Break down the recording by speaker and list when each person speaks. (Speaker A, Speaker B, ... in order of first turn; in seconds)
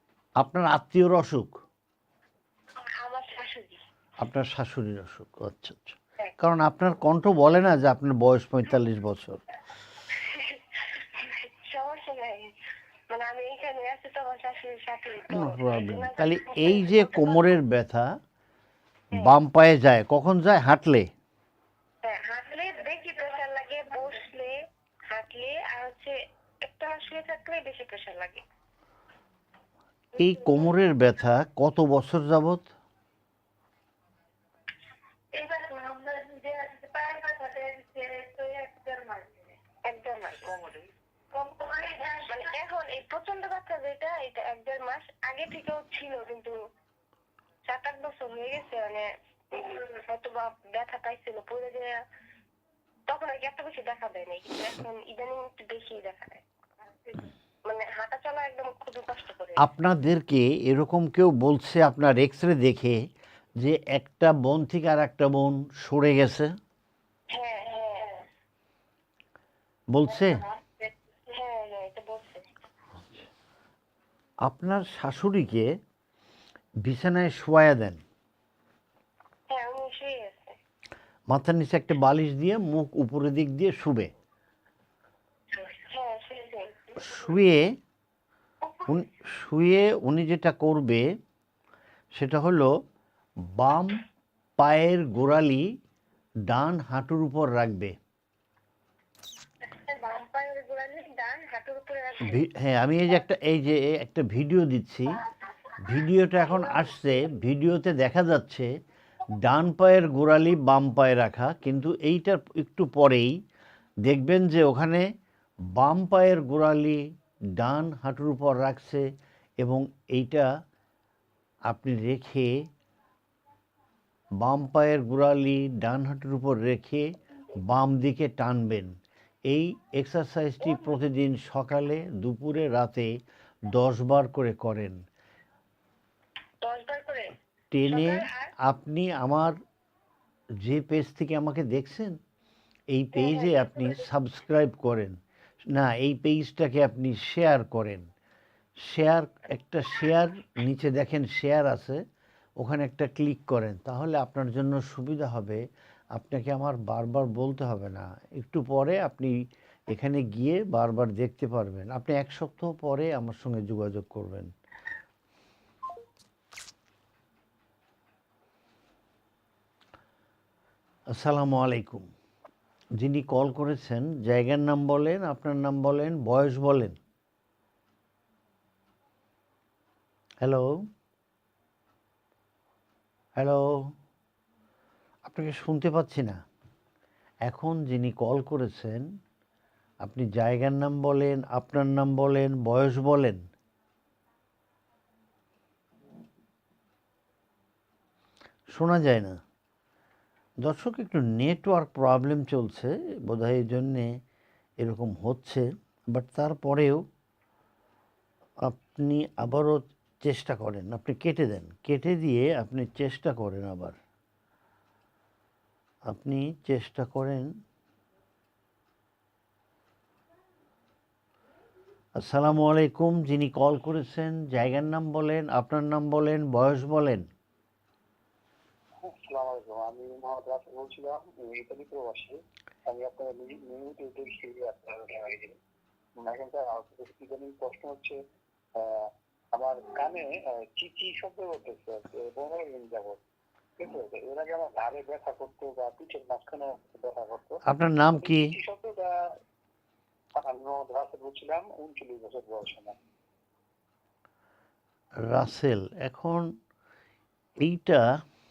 Speaker A: 0.4-1.5, 4.2-9.4, 15.3-18.1, 19.1-21.1, 30.2-32.7, 59.6-63.0, 63.6-66.5, 69.9-70.4, 74.5-75.7, 76.8-78.0, 81.3-84.1, 87.0-87.7, 88.9-91.0, 92.1-92.7, 93.5-94.0, 94.6-95.7, 96.5-97.9, 102.2-105.2, 105.8-108.7, 109.4-113.3, 114.0-115.1, 115.7-117.0, 117.6-119.0, 119.6-120.5, 121.7-122.5, 124.4-127.0, 127.6-128.9, 129.5-133.1, 133.7-135.0, 137.7-139.6, 140.6-142.2, 142.9-145.2, 145.7-148.1, 148.8-152.0, 152.6-155.6, 156.1-159.3, 159.9-164.5, 171.1-172.1, 173.0-177.0, 180.4-180.7, 183.4-183.7, 185.2-186.4, 187.5-189.1, 190.0-193.4, 198.7-199.4, 200.6-204.2, 204.8-207.0, 208.6-214.0, 216.1-217.5, 222.2-227.3, 247.7-248.5, 255.3-256.5, 257.6-258.0
Speaker B: 3.0-3.8, 10.1-12.5, 13.1-17.6, 22.0-24.5, 25.1-28.4, 30.1-30.8, 35.3-40.8, 41.3-46.6, 47.6-51.9, 53.1-56.4, 57.0-59.6, 67.3-68.2, 70.1-72.5, 79.5-80.5, 85.5-87.4, 88.6-89.0, 99.7-102.5, 105.2-106.9, 136.6-138.5, 143.1-144.1
Speaker C: 229.0-235.6, 236.2-238.2, 238.7-243.2, 243.8-249.3, 250.3-252.9